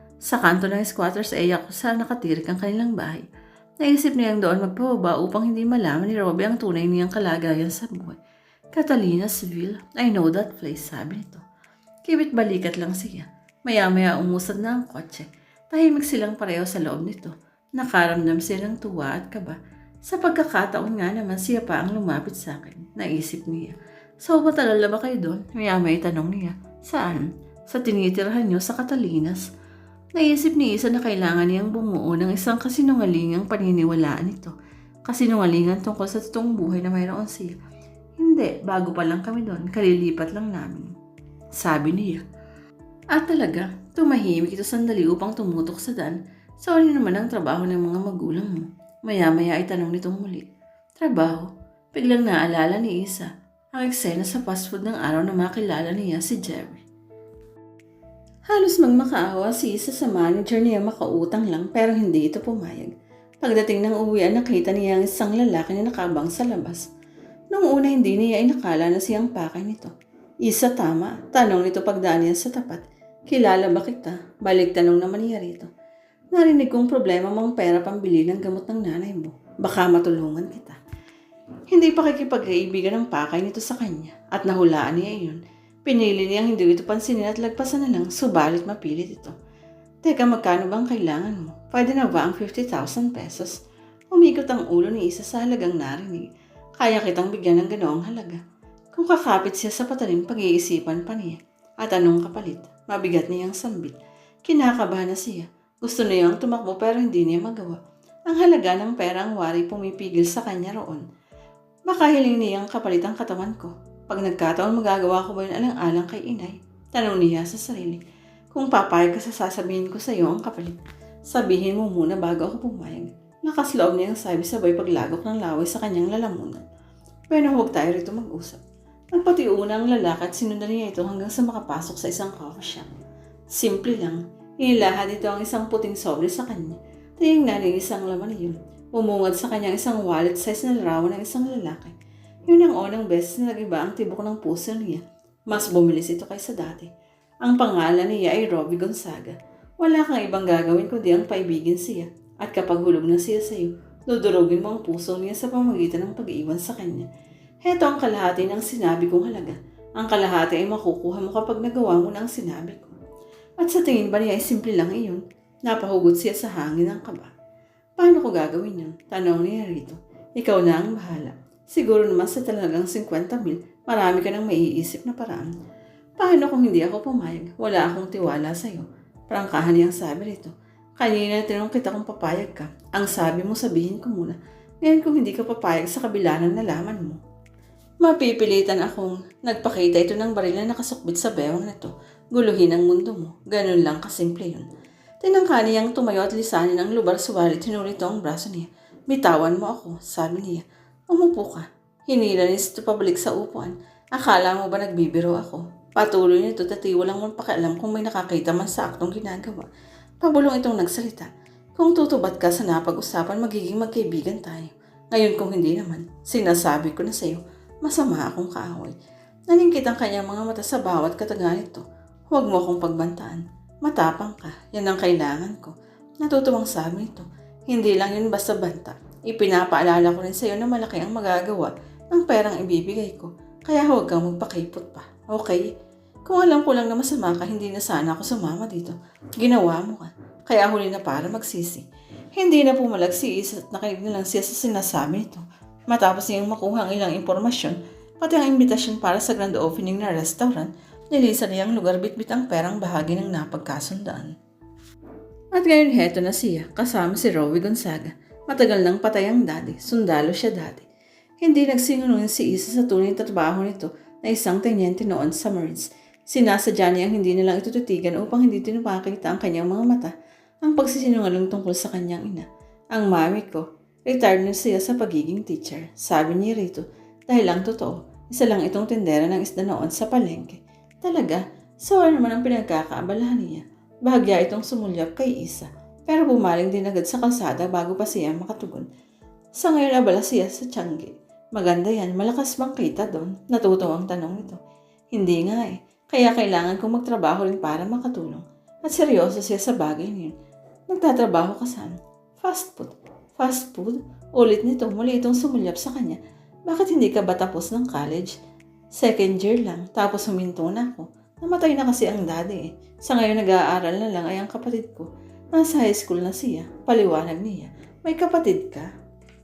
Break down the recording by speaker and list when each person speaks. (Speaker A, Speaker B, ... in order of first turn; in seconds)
Speaker A: 0.3-3.2, 3.8-8.2, 8.7-11.4, 12.0-29.4, 30.1-34.5, 35.0-37.5, 38.2-40.9, 41.6-42.2, 43.1-50.5, 51.0-56.8, 58.5-66.8, 67.5-69.9, 70.4-75.7, 76.3-80.8, 81.7-89.3, 90.0-93.6, 94.1-96.3, 96.8-98.4, 98.9-111.0, 111.9-118.0, 118.5-126.6, 127.3-128.6, 129.1-132.9, 133.5-141.9, 142.5-146.9, 147.4-157.1, 157.6-162.9, 163.6-167.3, 168.0-175.5, 176.2-187.2, 188.0-194.7, 195.2-209.7, 210.2-218.9, 219.5-235.7, 236.2-254.3, 255.5-260.9, 261.4-270.1, 270.6-288.9, 289.6-294.6, 295.1-300.3, 300.9-308.4, 308.9-318.9